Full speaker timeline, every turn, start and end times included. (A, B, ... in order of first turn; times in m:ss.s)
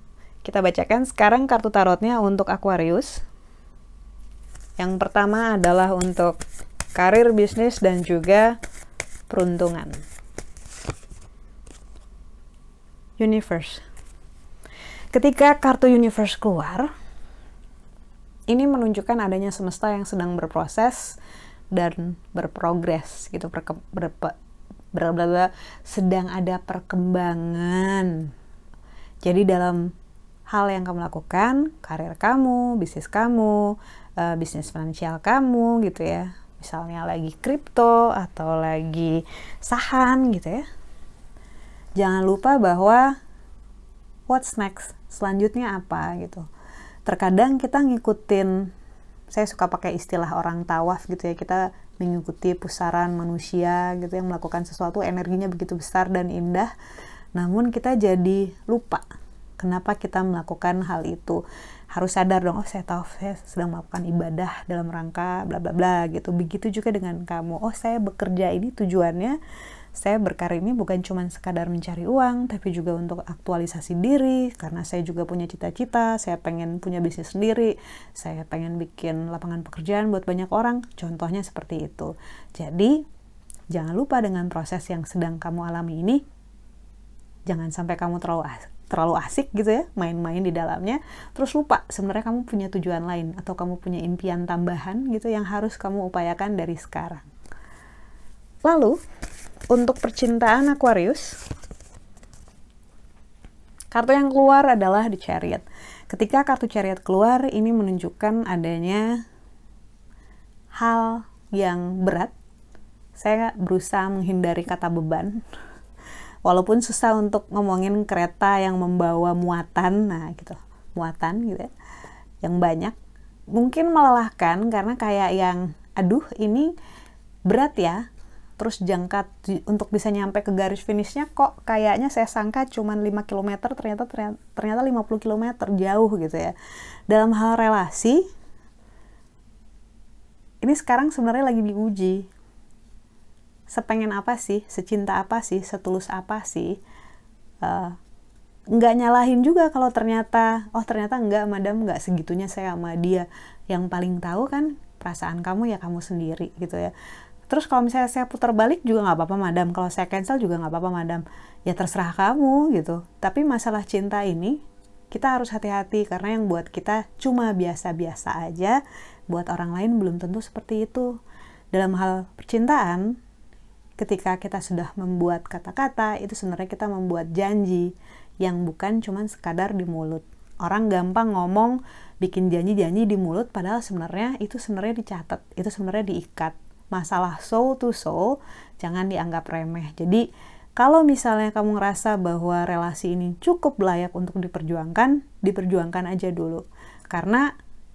0:00.4-0:03.2 A
0:04.8-0:06.4 A
0:07.0-0:08.6 A
0:09.3-0:10.0 A
0:13.2-0:13.8 A
0:15.1-0:16.9 A
0:18.5-0:21.2 A
0:21.7-0:24.3 A
0:24.9-0:28.3 A
0:29.2-0:29.9 A
0:30.5-0:40.7 A
0:42.0-0:43.2 A
0:44.3-0:46.5 A
0:47.0-0:48.7 A
0:49.3-0:56.7 A
0:57.4-0:59.0 A
0:59.6-1:09.4 A
1:09.9-1:23.0 A
1:23.7-1:26.2 A
1:27.5-1:37.3 A
1:38.6-1:39.0 A
1:39.7-1:41.4 A
1:43.9-1:49.2 A
1:50.8-1:52.3 A
1:53.2-1:55.4 A
1:56.4-2:01.7 A
2:02.4-2:03.0 A
2:03.5-2:06.7 A
2:07.5-2:08.1 A
2:08.6-2:16.6 A
2:17.1-2:18.2 A
2:20.6-2:22.3 A
2:23.7-2:26.8 A
2:27.6-2:28.0 A
2:28.7-2:36.9 A
2:37.5-2:51.2 A
2:51.7-2:53.2 A
2:54.0-3:17.5 A